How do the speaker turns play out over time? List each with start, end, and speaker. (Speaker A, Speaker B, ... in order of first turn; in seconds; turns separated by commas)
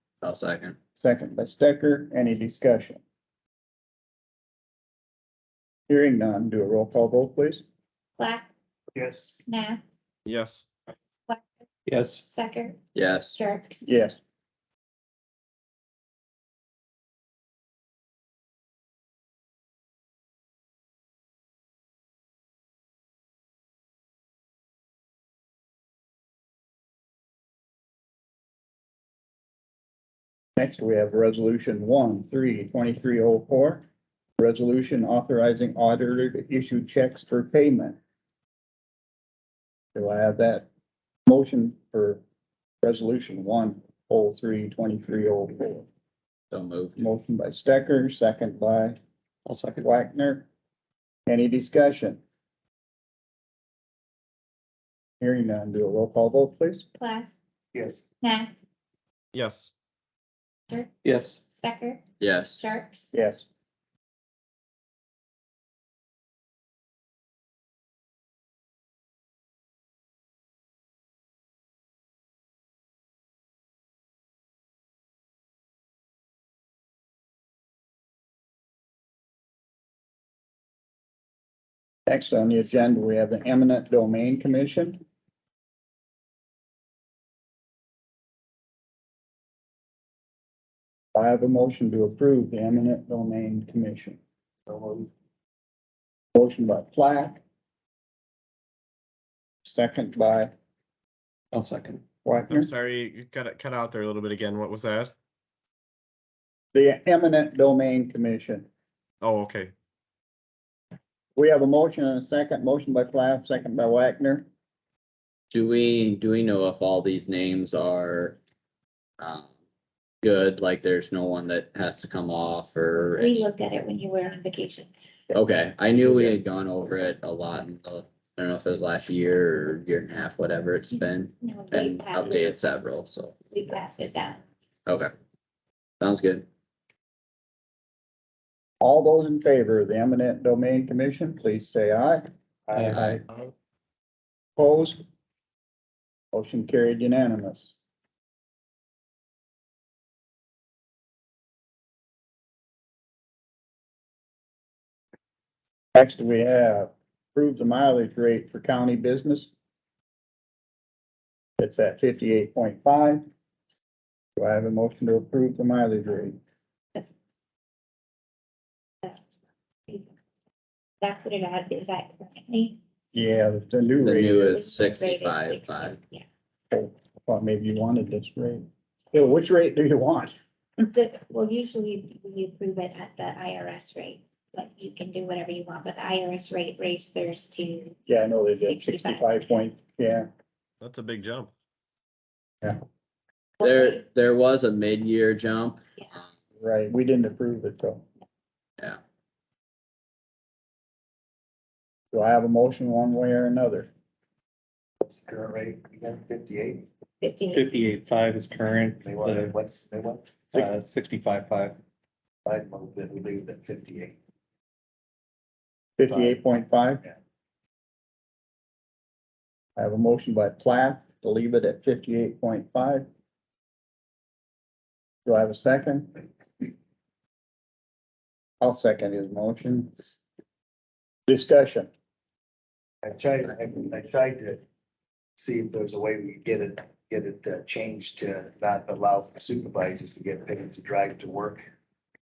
Speaker A: 0.2-0.8, Speaker B: 1.0-3.0, Speaker B: 5.9-7.6, Speaker C: 8.2-8.5, Speaker D: 8.9-9.4, Speaker C: 9.4-9.8, Speaker E: 10.2-10.7, Speaker F: 11.9-12.2, Speaker C: 12.2-13.8, Speaker A: 12.9-13.3, Speaker B: 13.8-14.2, Speaker B: 30.6-33.8, Speaker B: 34.4-38.0, Speaker B: 39.9-40.7, Speaker B: 41.3-42.2, Speaker B: 42.8-45.9, Speaker A: 46.5-47.0, Speaker B: 47.0-49.0, Speaker F: 49.5-49.8, Speaker B: 49.8-50.5, Speaker B: 51.3-52.2, Speaker B: 55.2-56.9, Speaker C: 57.0-57.4, Speaker D: 57.7-58.0, Speaker C: 58.2-58.6, Speaker E: 59.3-59.7, Speaker F: 61.0-61.4, Speaker C: 61.5-63.1, Speaker A: 62.2-62.6, Speaker B: 63.1-63.5, Speaker B: 82.1-85.0, Speaker B: 91.1-94.2, Speaker D: 94.7-95.1, Speaker B: 96.3-97.4, Speaker B: 99.6-100.5, Speaker F: 101.5-102.0, Speaker B: 102.2-102.7, Speaker E: 102.5-105.1, Speaker B: 106.7-108.7, Speaker E: 109.2-109.7, Speaker B: 111.3-114.5, Speaker A: 115.5-118.4, Speaker A: 119.2-119.5, Speaker A: 120.2-123.4, Speaker C: 123.2-124.9, Speaker A: 125.3-133.4, Speaker C: 131.0-132.7, Speaker C: 133.5-134.4, Speaker A: 136.0-136.4, Speaker B: 138.8-142.2, Speaker D: 142.7-143.2, Speaker F: 142.7-143.2, Speaker B: 144.6-145.0, Speaker B: 146.3-147.7, Speaker B: 155.9-159.5, Speaker B: 161.6-163.2, Speaker B: 164.4-166.4, Speaker C: 169.9-170.2, Speaker C: 171.0-172.8, Speaker B: 173.1-174.7, Speaker A: 174.0-176.0, Speaker C: 174.3-176.2, Speaker B: 176.7-180.4, Speaker C: 180.9-188.0, Speaker B: 188.1-190.3, Speaker C: 188.5-189.3, Speaker E: 190.8-191.5, Speaker A: 193.6-196.2, Speaker C: 193.6-193.9, Speaker B: 196.6-198.0, Speaker B: 202.1-203.9, Speaker D: 205.0-206.8, Speaker C: 207.2-207.6, Speaker F: 207.5-209.5, Speaker D: 209.0-210.7, Speaker F: 210.5-211.8, Speaker D: 212.4-214.2, Speaker B: 216.0-217.0, Speaker D: 216.1-216.4, Speaker B: 219.8-223.1, Speaker B: 225.2-226.2, Speaker B: 228.6-230.0, Speaker B: 231.3-231.9, Speaker D: 233.0-234.6, Speaker D: 235.4-241.6